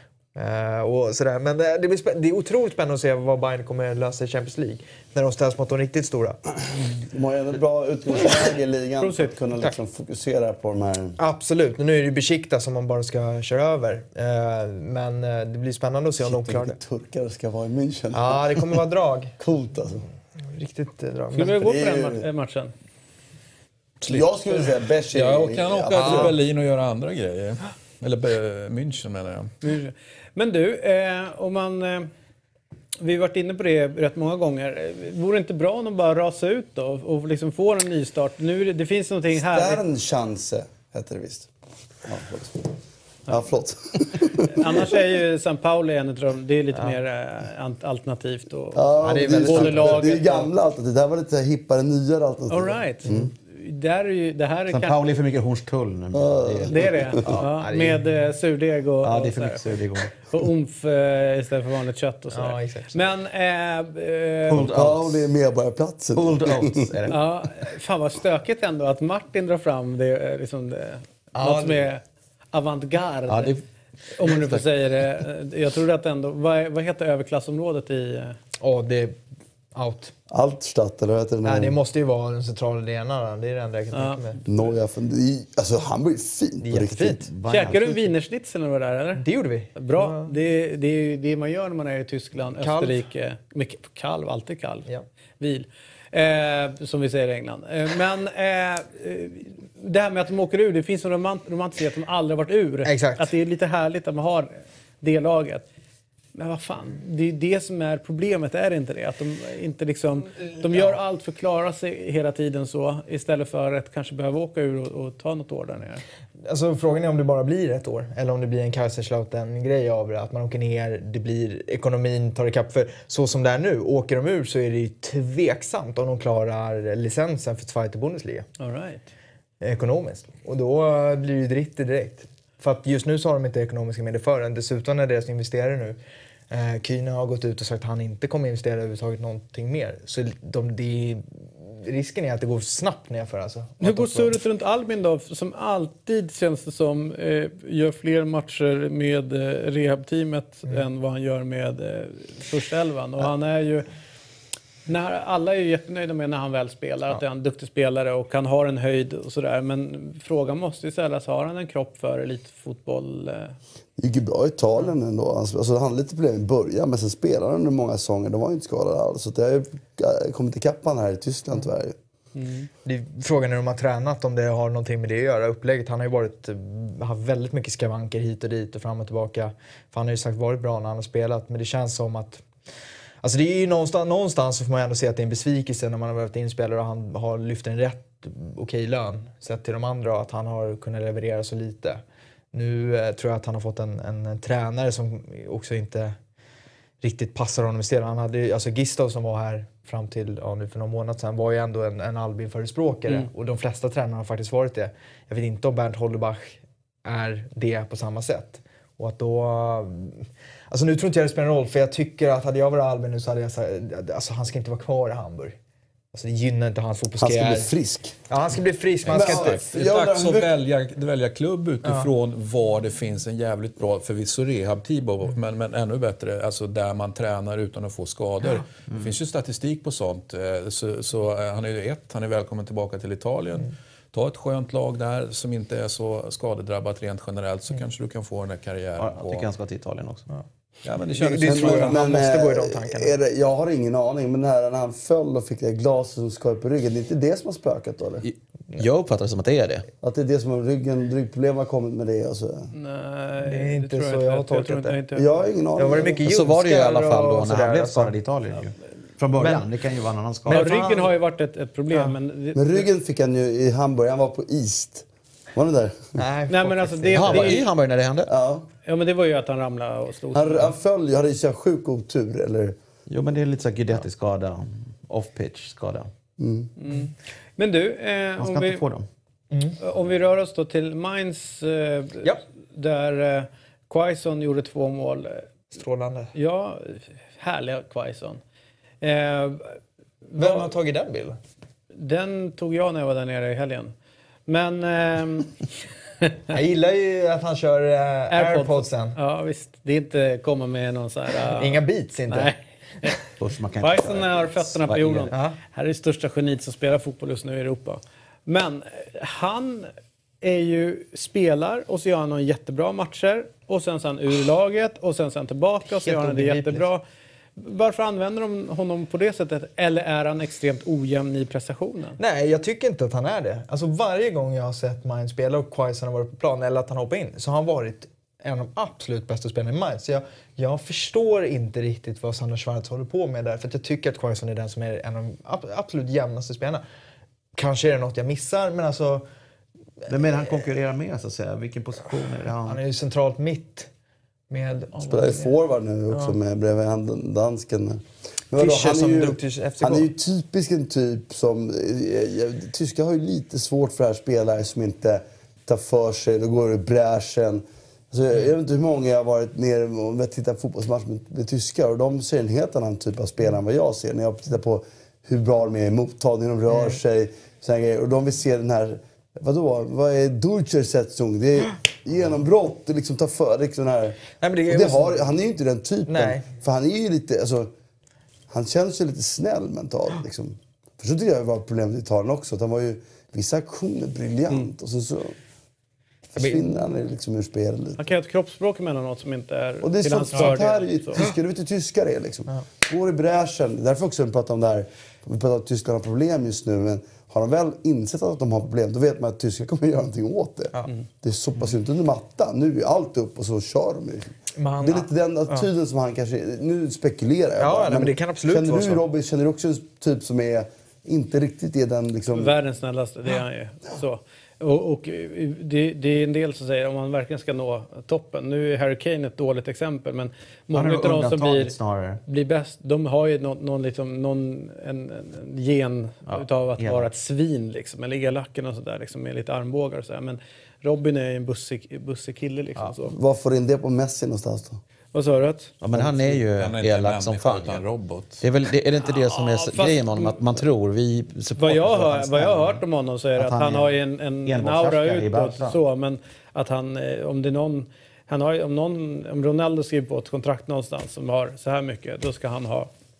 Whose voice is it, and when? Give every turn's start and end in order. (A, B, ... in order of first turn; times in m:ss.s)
0:00.3-0:06.4 A
0:07.0-0:11.2 B
0:08.2-0:08.5 C
0:09.0-0:09.3 C
0:11.2-0:16.8 A
0:16.2-0:18.8 B
0:18.1-0:19.4 A
0:19.4-0:20.0 B
0:20.5-0:21.7 A
0:21.3-0:22.7 C
0:21.6-0:22.2 B
0:24.0-0:24.3 D
0:24.1-0:26.4 B
0:25.1-0:29.5 D
0:26.0-0:26.3 A
0:29.6-0:32.1 C
0:33.0-0:39.8 C
0:39.4-0:41.5 B
0:42.0-0:44.9 B
0:44.4-0:50.5 C
0:48.7-0:53.3 B
0:49.0-0:50.0 A
0:52.5-0:55.0 C
0:54.7-0:57.5 E
0:56.1-0:57.4 B
0:56.7-1:04.6 C
0:57.4-0:58.2 A
0:59.0-1:00.1 E
1:02.3-1:03.0 A
1:04.5-1:05.2 E
1:04.5-1:06.9 B
1:06.1-1:07.2 E
1:07.1-1:13.5 C
1:11.3-1:11.9 A
1:13.3-1:13.6 E
1:14.2-1:18.4 C
1:14.2-1:14.6 E
1:18.6-1:19.2 A
1:19.7-1:20.1 A
1:20.3-1:21.8 B
1:21.4-1:24.4 A
1:23.9-1:24.3 C
1:24.4-1:27.3 B
1:26.6-1:27.2 A
1:27.3-1:28.1 E
1:27.5-1:34.9 C
1:29.2-1:30.3 A
1:32.6-1:33.0 A
1:35.4-1:45.6 C
1:42.8-1:43.3 A
1:46.3-1:56.0 C
1:56.4-2:08.5 A
2:08.6-2:09.1 C
2:09.6-2:16.0 A
2:16.5-2:24.3 A
2:23.8-2:33.8 C
2:34.9-2:43.6 C
2:44.0-2:52.0 B
2:52.3-2:52.7 C
2:52.8-3:02.4 A
3:03.2-3:12.0 A
3:12.5-3:16.2 A
3:17.0-3:35.6 A
3:36.1-3:37.7 A
3:37.2-3:38.2 B
3:38.3-3:39.6 A
3:39.0-3:59.5 D
3:39.1-3:40.5 B
3:59.0-4:00.3 E
4:00.8-4:02.2 D
4:01.1-4:03.1 A
4:01.3-4:08.2 B
4:08.2-4:09.9 E
4:10.0-4:12.7 B
4:12.7-4:15.3 C
4:13.4-4:15.0 A
4:15.1-4:16.3 B
4:15.8-4:18.1 A
4:16.2-4:20.7 E
4:19.4-4:19.6 A
4:20.4-4:21.1 A
4:20.5-4:22.9 C
4:21.9-4:22.2 A
4:22.5-4:26.2 B
4:26.2-4:27.7 A
4:26.5-4:27.6 C
4:27.1-4:28.3 E
4:28.3-4:28.7 B
4:28.8-4:30.7 C
4:30.3-4:32.8 B
4:33.1-4:36.1 E
4:36.4-4:36.7 B
4:36.8-4:38.8 C
4:38.4-4:39.1 E
4:39.5-4:39.8 A
4:39.8-4:45.5 C
4:45.7-4:46.3 A
4:46.3-4:48.4 C
4:49.0-4:49.8 C
4:50.3-4:50.7 C
4:50.4-4:51.4 A
4:51.9-4:53.9 C
4:54.5-4:55.7 C
4:56.5-4:59.2 A
4:58.3-5:03.2 C
5:01.5-5:02.6 A
5:03.4-5:05.3 E
5:03.8-5:17.0 C
5:05.3-5:05.6 A
5:15.8-5:16.8 A
5:17.6-5:22.2 C
5:22.2-5:36.8 A
5:37.5-5:39.2 A
5:40.0-5:42.8 E
5:42.6-5:43.9 A
5:44.5-5:45.5 A
5:45.0-6:17.7 B
5:46.1-5:46.4 A
5:48.5-5:50.1 A
6:06.7-6:07.0 A
6:14.4-6:15.2 A
6:16.1-6:16.4 A
6:18.5-6:25.4 B
6:26.3-6:28.0 B
6:26.4-6:26.6 A
6:28.0-6:31.3 C
6:29.8-6:52.5 B
6:44.6-6:45.7 A
6:47.6-6:49.0 A
6:52.3-7:01.7 C
7:00.7-7:02.2 E
7:02.2-7:13.2 C
7:06.3-7:07.1 E
7:13.1-7:14.8 B
7:15.1-7:15.7 C
7:15.8-7:17.8 E
7:15.9-7:16.3 B
7:16.6-7:18.4 D
7:18.4-7:22.8 E
7:19.0-7:20.4 C
7:21.6-7:32.9 C
7:23.4-7:25.8 E